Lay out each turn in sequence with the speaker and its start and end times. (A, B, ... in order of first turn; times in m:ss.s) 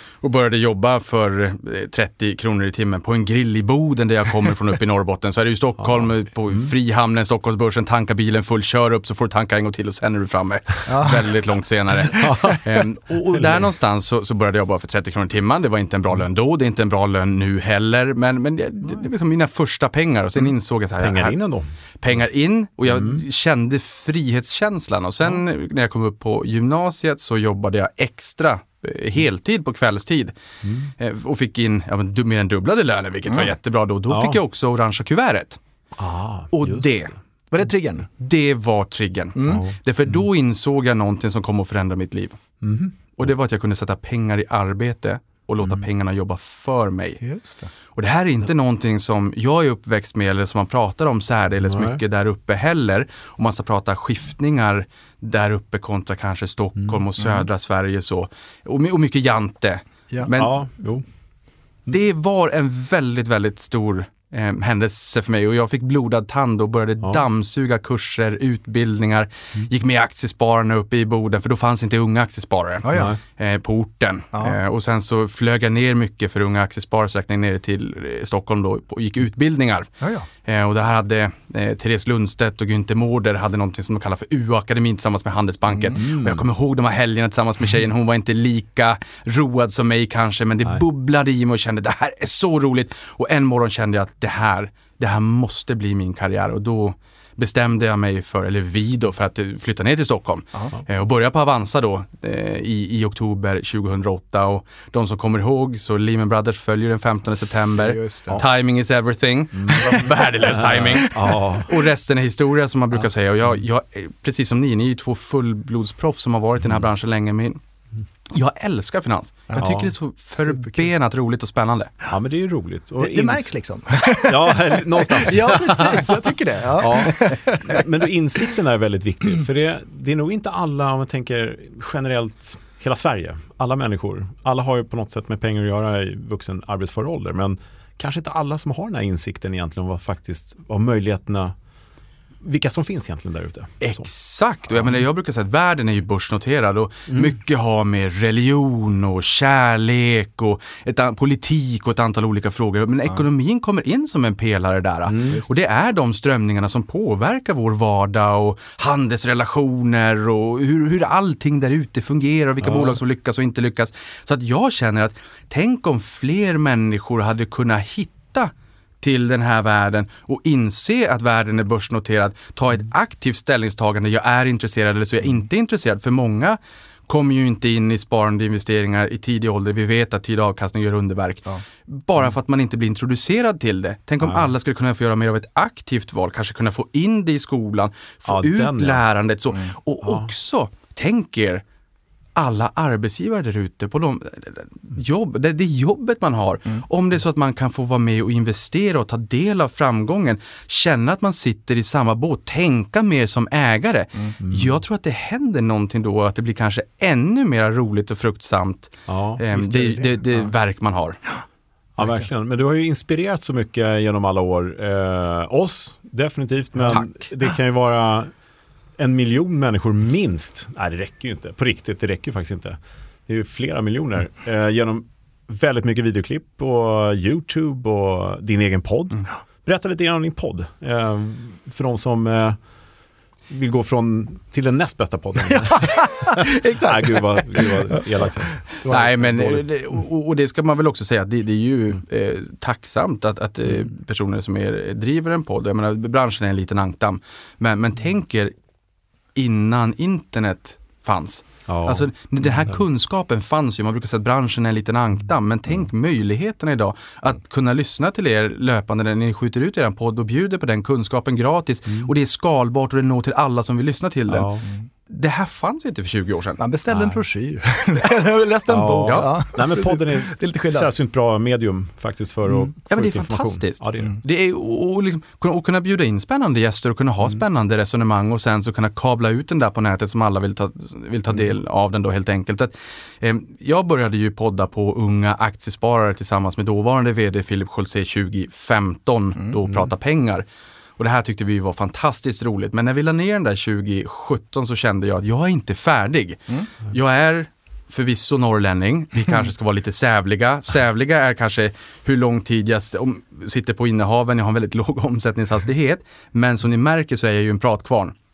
0:00.2-0:21.4 A
0:05.8-0:06.7 B
0:10.9-0:11.3 C
0:12.1-0:13.7 B
0:21.0-0:21.7 B
0:22.0-0:30.3 A
0:22.8-0:23.2 B
0:30.6-0:30.9 B
0:31.0-0:35.6 A
0:34.1-0:34.4 B
0:36.0-0:36.9 B
0:36.5-0:37.1 A
0:37.5-0:38.1 C
0:38.2-0:42.4 A
0:39.4-0:39.6 C
0:39.5-0:40.2 B
0:42.6-0:43.2 B
0:43.2-0:47.2 A
0:45.6-0:45.9 B
0:47.2-0:47.7 C
0:47.9-1:00.5 A
0:51.6-0:52.0 B
1:00.3-1:01.0 B
1:01.9-1:19.9 A
1:12.8-1:13.1 C
1:12.9-1:13.2 B
1:14.3-1:14.6 C
1:20.0-1:20.3 C
1:20.4-1:57.6 A
1:25.9-1:26.4 B
1:47.8-1:48.4 C
1:49.5-1:51.7 B
1:58.3-2:01.9 A
1:59.6-1:59.9 B
2:00.4-2:00.8 C
2:02.1-2:03.5 B
2:03.0-2:07.8 C
2:04.2-2:06.1 B
2:06.7-2:21.5 B
2:22.4-2:24.1 B
2:23.8-3:11.6 A
2:24.7-2:25.0 B
2:27.1-2:27.3 B
2:35.0-2:35.4 B
2:42.6-2:42.9 B
3:04.2-3:04.5 B
3:08.2-3:09.0 B
3:10.0-3:10.3 B
3:12.4-3:31.2 A
3:24.4-3:24.8 B
3:29.1-3:30.1 B
3:32.0-3:38.3 B
3:39.0-3:52.6 B
3:53.5-3:58.6 B
3:55.5-3:59.6 C
3:58.8-4:08.5 A
4:09.3-4:24.5 A
4:11.6-4:12.8 B
4:24.3-4:24.6 B
4:25.1-4:26.6 A
4:26.6-4:30.9 C
4:26.9-4:27.2 B
4:28.7-4:34.2 B
4:29.0-4:29.3 A
4:32.8-4:50.4 A
4:51.0-5:08.1 A